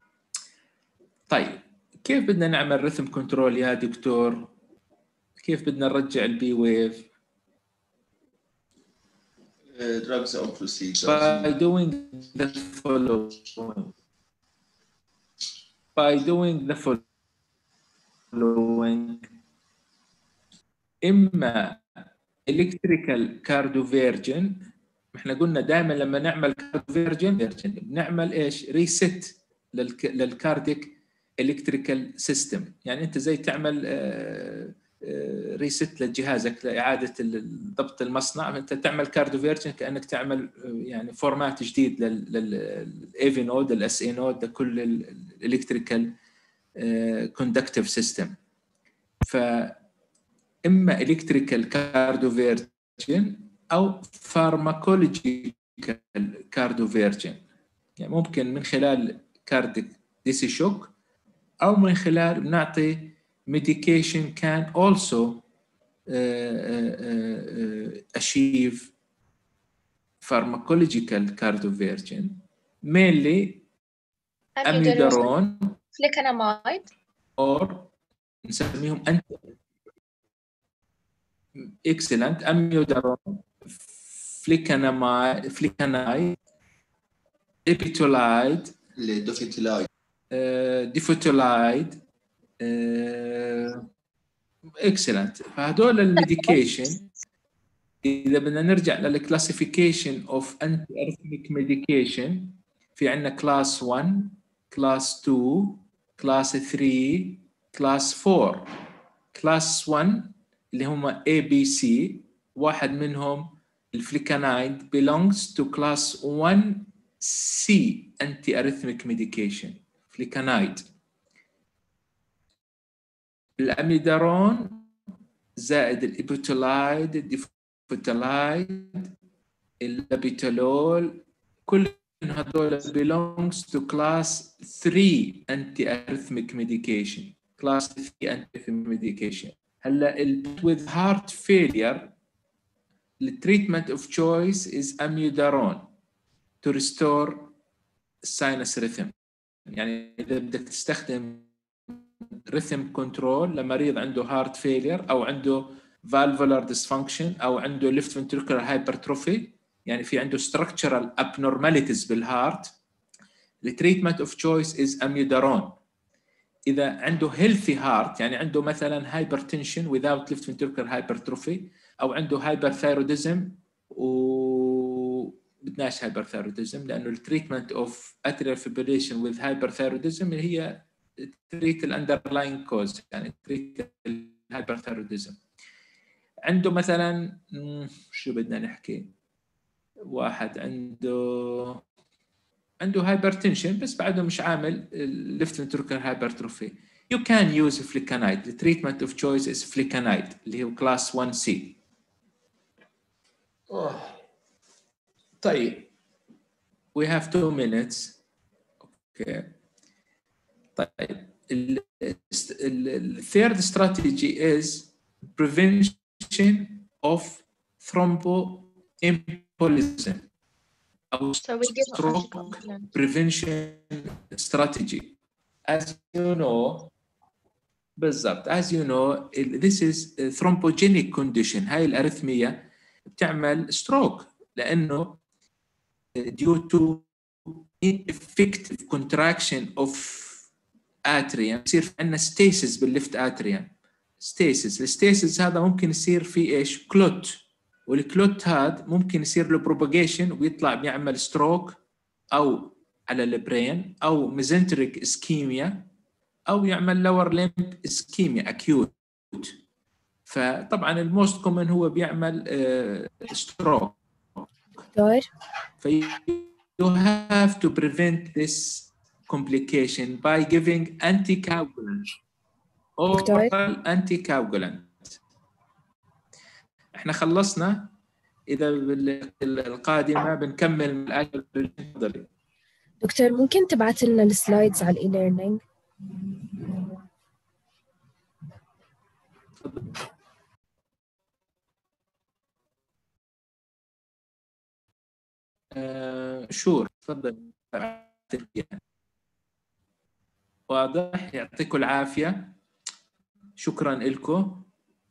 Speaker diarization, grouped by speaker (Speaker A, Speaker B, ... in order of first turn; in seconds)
Speaker A: 1.3-4.5, 5.4-7.1, 11.0-13.9, 15.9-17.0, 18.3-19.2, 21.0-21.8, 22.5-24.6, 25.1-46.1, 46.8-48.3, 49.2-49.8, 50.6-57.4, 58.0-60.9, 61.6-65.4, 66.1-68.9, 70.2-73.6, 74.6-75.8, 77.4-77.9, 78.4-79.4, 81.8-83.4, 84.3-86.4, 87.7-88.8, 90.3-92.0, 92.6-93.8, 94.8-97.0, 98.0-108.7, 109.3-120.8, 123.6-124.9, 125.6-129.1, 129.8-142.1, 143.2-145.9, 146.6-147.5, 148.2-149.1, 149.7-162.7, 163.6-165.8, 166.7-185.4, 186.4-189.1, 190.1-191.8, 192.8-201.8, 203.7-204.2, 205.4-205.9, 206.9-208.2, 208.9-209.5, 210.8-220.2, 221.1-225.2, 225.7-226.9, 228.0-235.2, 236.2-240.5, 241.1-251.8, 252.3-255.8, 256.5-259.6, 260.3-264.0, 265.8-272.1, 273.0-275.2, 276.9-277.9, 278.5-282.3, 289.6-289.9, 295.7-298.8, 300.7-302.5, 303.6-304.7
Speaker B: 9.7-11.5, 89.0-89.8
Speaker C: 74.6-75.3, 75.9-76.9, 221.4-222.9
Speaker D: 264.9-265.2, 273.1-273.5, 283.0-285.6